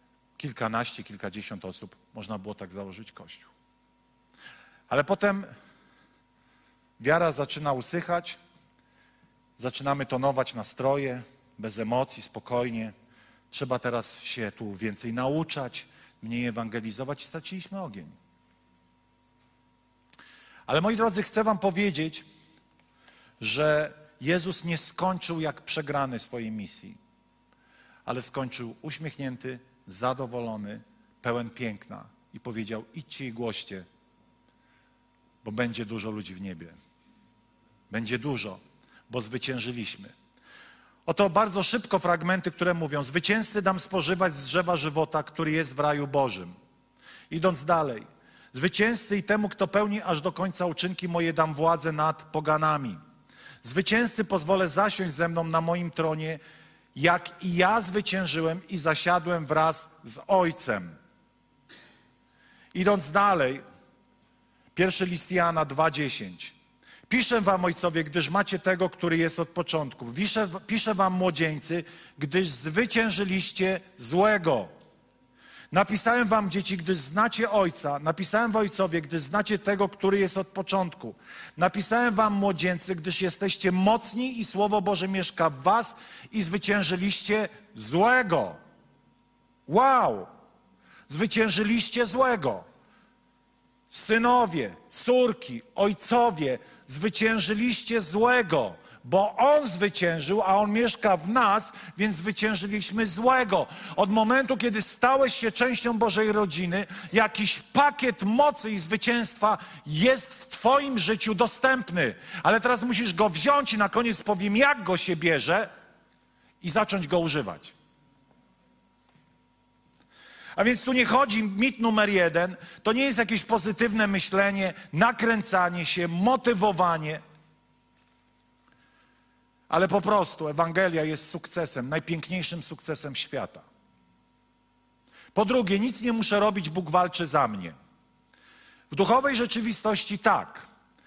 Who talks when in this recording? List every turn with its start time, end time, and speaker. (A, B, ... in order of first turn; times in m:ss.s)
0:00.4-0:03.5 A
0:04.9-0:05.5 A
0:07.0-0:08.4 A
0:09.6-0:12.9 A
0:13.5-0:18.2 A
0:20.7-0:22.2 A
0:23.4-0:27.0 A
0:28.1-0:33.9 A
0:35.4-0:36.7 A
0:37.9-0:40.1 A
0:41.1-0:46.5 A
0:47.3-0:53.0 A
0:53.6-0:56.4 A
0:56.9-1:00.9 A
1:02.7-1:03.6 A
1:04.7-1:06.6 A
1:07.1-1:14.7 A
1:15.7-1:28.6 A
1:29.7-1:30.3 A
1:31.1-1:32.6 A
1:33.9-1:55.7 A
1:56.6-1:57.7 A
2:00.6-2:07.2 A
2:09.7-2:13.6 A
2:15.3-2:17.7 A
2:18.9-2:20.7 A